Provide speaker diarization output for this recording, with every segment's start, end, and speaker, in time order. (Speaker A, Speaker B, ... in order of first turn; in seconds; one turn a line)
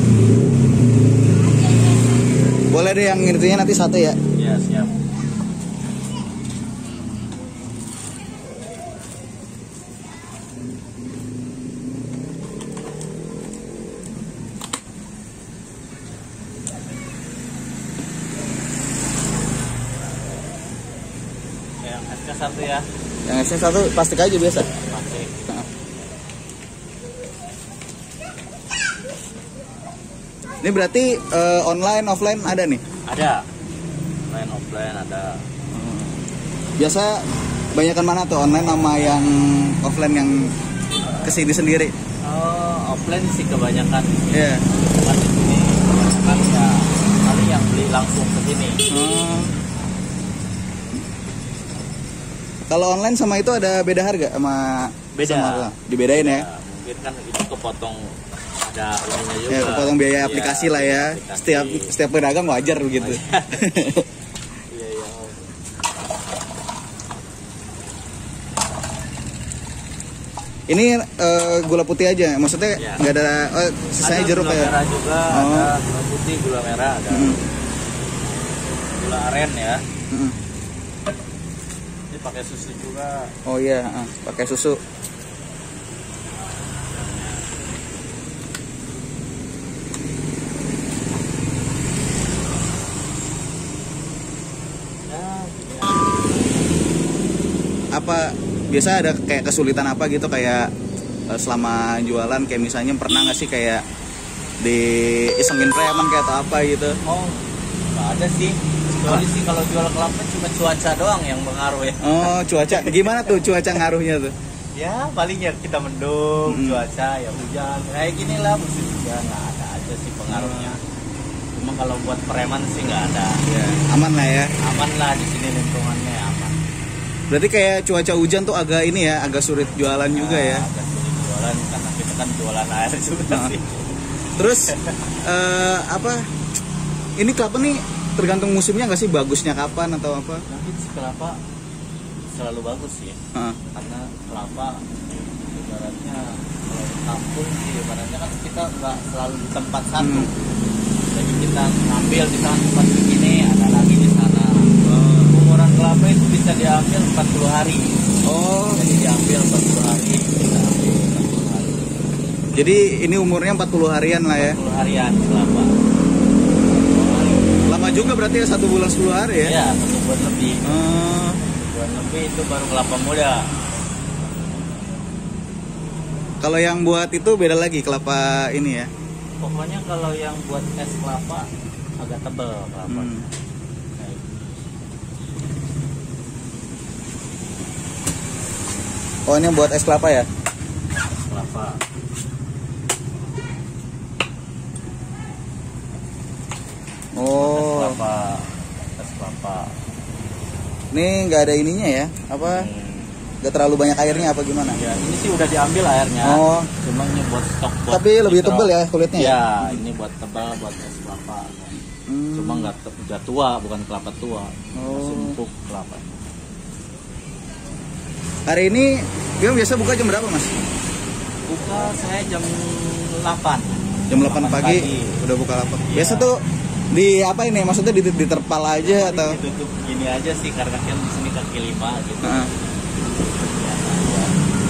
Speaker A: 2.7-4.2
Speaker B: 4.4-5.0
Speaker B: 21.8-22.9
Speaker A: 23.3-24.7
Speaker B: 24.7-25.4
Speaker A: 30.6-32.8
Speaker B: 33.1-33.4
Speaker B: 34.3-35.4
Speaker A: 35.7-36.2
Speaker A: 36.8-37.2
Speaker A: 37.8-40.5
Speaker A: 41.2-41.9
Speaker B: 42.3-48.9
Speaker A: 44.3-44.6
Speaker A: 48.9-49.5
Speaker A: 52.7-56.5
Speaker B: 55.1-61.9
Speaker A: 59.5-64.1
Speaker B: 63.0-63.8
Speaker B: 64.7-65.5
Speaker A: 70.7-74.7
Speaker B: 72.8-73.0
Speaker B: 74.0-77.4
Speaker A: 75.3-75.7
Speaker A: 77.1-77.4
Speaker B: 79.0-79.8
Speaker B: 82.1-83.3
Speaker A: 83.5-84.8
Speaker B: 86.3-87.5
Speaker B: 95.1-96.7
Speaker A: 97.9-100.7
Speaker A: 101.3-103.8
Speaker A: 104.6-107.0
Speaker B: 107.0-113.5
Speaker A: 108.9-109.3
Speaker A: 112.0-114.3
Speaker B: 114.8-120.8
Speaker A: 116.5-116.8
Speaker A: 120.3-120.8
Speaker B: 121.5-123.4
Speaker A: 123.5-124.5
Speaker B: 124.6-126.6
Speaker A: 127.3-130.7
Speaker B: 130.1-135.0
Speaker A: 133.3-133.6
Speaker A: 134.4-134.7
Speaker A: 135.2-136.2
Speaker A: 137.2-140.4
Speaker B: 140.5-141.4
Speaker B: 142.3-143.2
Speaker B: 143.7-150.4
Speaker A: 150.0-150.3
Speaker B: 151.1-154.7
Speaker A: 154.8-155.3
Speaker B: 155.3-158.0
Speaker A: 158.3-158.8
Speaker B: 158.7-161.9
Speaker A: 162.6-164.6
Speaker B: 164.4-165.7
Speaker B: 166.6-167.6
Speaker A: 167.7-169.5
Speaker B: 169.4-170.8
Speaker A: 170.7-171.4
Speaker B: 171.4-173.5
Speaker A: 176.4-178.9
Speaker B: 179.4-181.5
Speaker B: 182.0-183.3
Speaker A: 182.9-183.2
Speaker B: 184.0-184.7
Speaker A: 189.3-190.3
Speaker B: 191.0-191.8
Speaker A: 197.2-198.0
Speaker B: 197.4-199.8
Speaker A: 200.9-202.7
Speaker B: 202.4-203.2
Speaker A: 203.4-204.8
Speaker B: 204.7-211.8
Speaker A: 206.2-206.7
Speaker A: 207.9-209.8
Speaker A: 212.1-212.7
Speaker B: 212.3-216.1
Speaker A: 214.8-215.4
Speaker A: 218.5-220.5
Speaker B: 221.5-225.2
Speaker A: 224.1-229.4
Speaker B: 225.9-226.3
Speaker B: 228.8-234.4
Speaker A: 232.2-232.5